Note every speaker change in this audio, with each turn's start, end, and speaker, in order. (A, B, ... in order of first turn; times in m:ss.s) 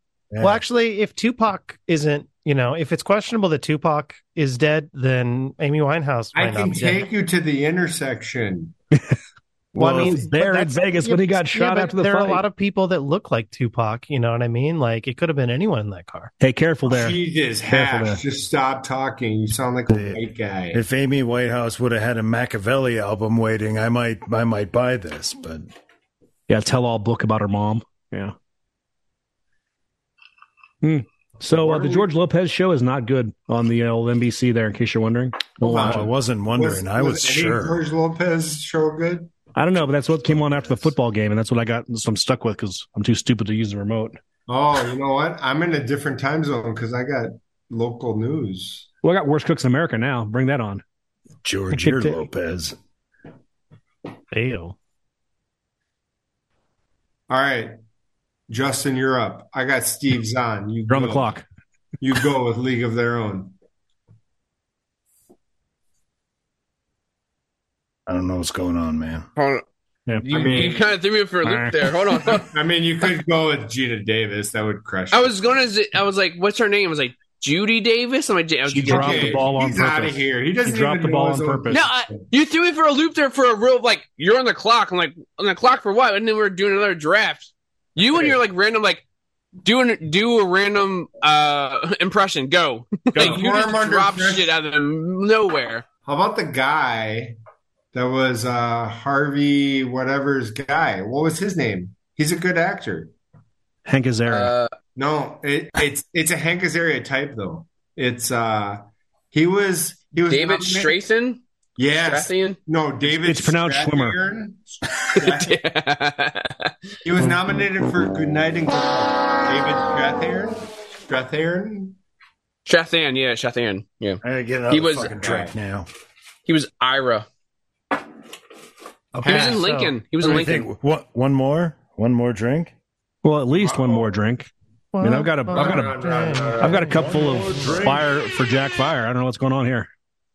0:00.3-0:00.6 A
0:00.4-0:07.1 B
0:06.4-0:08.7 C
0:09.8-0:12.4 D
0:09.8-0:16.3 B
0:09.8-0:10.2 A
0:16.4-0:18.2 D
0:16.9-0:20.8 C
0:19.9-0:20.2 A
0:20.7-0:25.7 A
0:26.5-0:28.4 D
0:30.8-0:36.0 D
0:31.6-0:32.1 C
0:35.6-0:39.3 C
0:35.8-0:37.8 A
0:39.6-0:44.2 D
0:40.2-0:40.9 A
0:44.5-0:48.9 C
0:49.0-0:50.8 D
0:51.4-0:52.8 A
0:51.7-0:52.3 D
0:54.3-0:54.8 B
0:57.3-0:57.8 C
0:58.5-1:01.4 C
1:00.9-1:01.4 D
1:02.0-1:03.6 C
1:08.1-1:09.3 A
1:09.4-1:09.6 E
1:10.2-1:12.5 E
1:10.3-1:10.9 C
1:11.4-1:11.7 D
1:12.4-1:15.4 C
1:15.1-1:19.4 E
1:18.7-1:21.9 D
1:18.9-1:22.3 C
1:21.7-1:29.0 E
1:29.6-1:35.8 E
1:33.1-1:33.4 D
1:33.2-1:34.5 C
1:36.1-1:37.4 C
1:37.9-1:43.1 C
1:43.9-1:44.5 D
1:44.3-1:44.7 E
1:45.0-1:51.0 C
1:50.3-1:51.4 E
1:51.8-1:55.6 C
1:52.0-1:52.6 E
1:53.1-1:54.2 D
1:55.2-1:56.7 E
1:57.0-2:02.0 C
2:02.7-2:05.1 E
2:04.2-2:05.9 A
2:05.1-2:05.6 C
2:06.5-2:07.3 E
2:09.1-2:10.0 B
2:09.2-2:09.6 C
2:09.2-2:10.7 E
2:10.2-2:12.7 A
2:13.2-2:14.5 D
2:13.6-2:14.1 C
2:14.9-2:17.8 B
2:15.0-2:16.0 D
2:15.5-2:17.1 C
2:16.6-2:19.9 D
2:16.9-2:18.1 A